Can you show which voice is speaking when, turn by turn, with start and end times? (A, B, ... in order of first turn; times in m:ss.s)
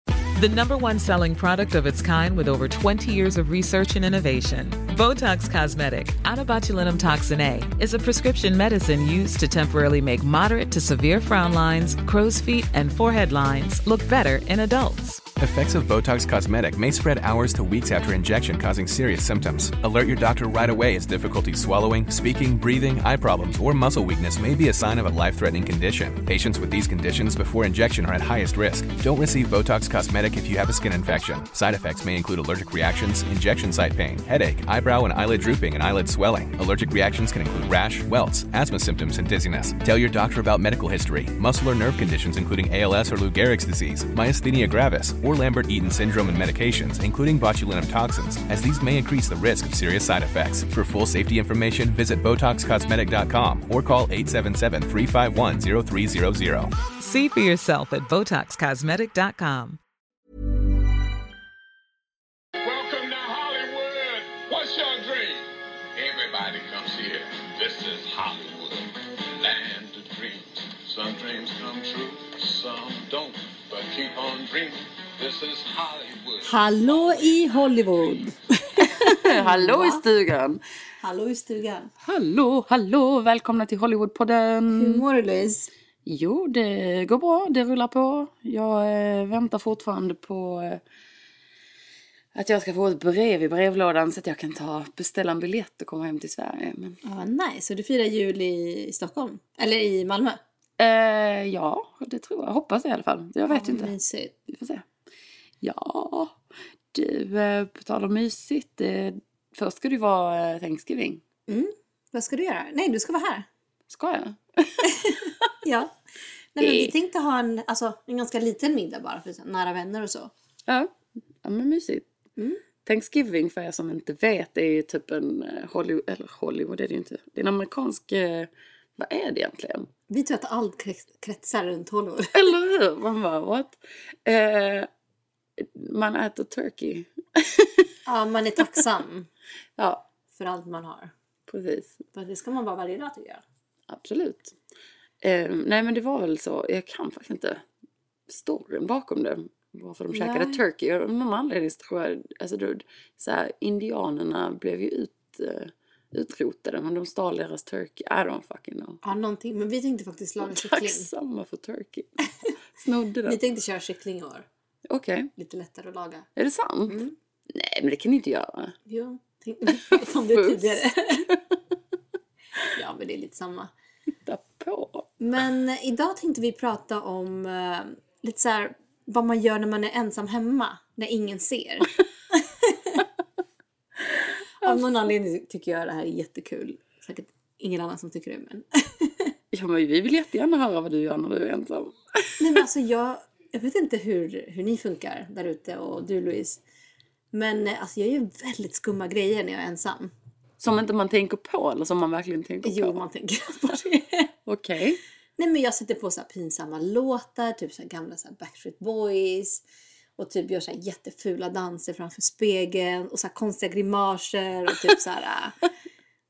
0:00.4-0:15.3 A
0:15.4-0:56.7 B
0:57.0-0:59.8 A
1:02.6-1:17.3 C
1:16.4-1:20.0 D
1:18.9-1:20.6 E
1:21.0-1:21.9 D
1:22.0-1:25.0 E
1:24.7-1:25.7 D
1:26.0-1:30.8 E
1:32.3-1:37.0 E
1:37.0-1:40.4 D
1:40.8-1:44.0 E
1:43.5-1:44.4 D
1:44.5-1:44.9 E
1:45.6-1:46.4 E
1:46.9-1:51.2 E
1:51.5-1:53.5 D
1:53.9-1:54.9 E
1:54.8-1:55.9 D
1:56.6-2:00.3 D
1:56.6-1:56.9 E
2:00.7-2:02.1 E
2:02.4-2:02.6 D
2:02.8-2:09.9 E
2:10.1-2:12.5 D
2:12.3-2:14.9 E
2:15.6-2:17.9 E
2:18.0-2:19.3 D
2:19.8-2:20.0 E
2:20.3-2:21.1 D
2:21.5-2:22.0 E
2:22.1-2:23.4 D
2:23.9-2:24.6 E
2:25.2-2:27.6 E
2:28.3-2:39.0 E
2:30.1-2:30.6 D
2:39.0-2:41.1 D
2:40.4-2:42.2 E
2:42.8-2:43.4 E
2:43.3-2:44.5 D
2:44.9-2:45.3 E
2:45.4-2:46.3 D
2:46.4-2:48.8 E
2:46.9-2:47.2 D
2:48.9-2:51.3 D
2:49.8-2:51.6 E
2:52.7-2:53.7 D
2:54.2-2:55.1 E
2:55.2-3:03.0 D
3:04.6-3:09.3 D
3:09.5-3:12.6 E
3:12.4-3:16.6 D
3:17.3-3:20.1 D
3:20.6-3:23.0 E
3:22.6-3:24.3 D
3:24.5-3:25.0 E
3:25.4-3:29.6 D
3:30.2-3:35.6 D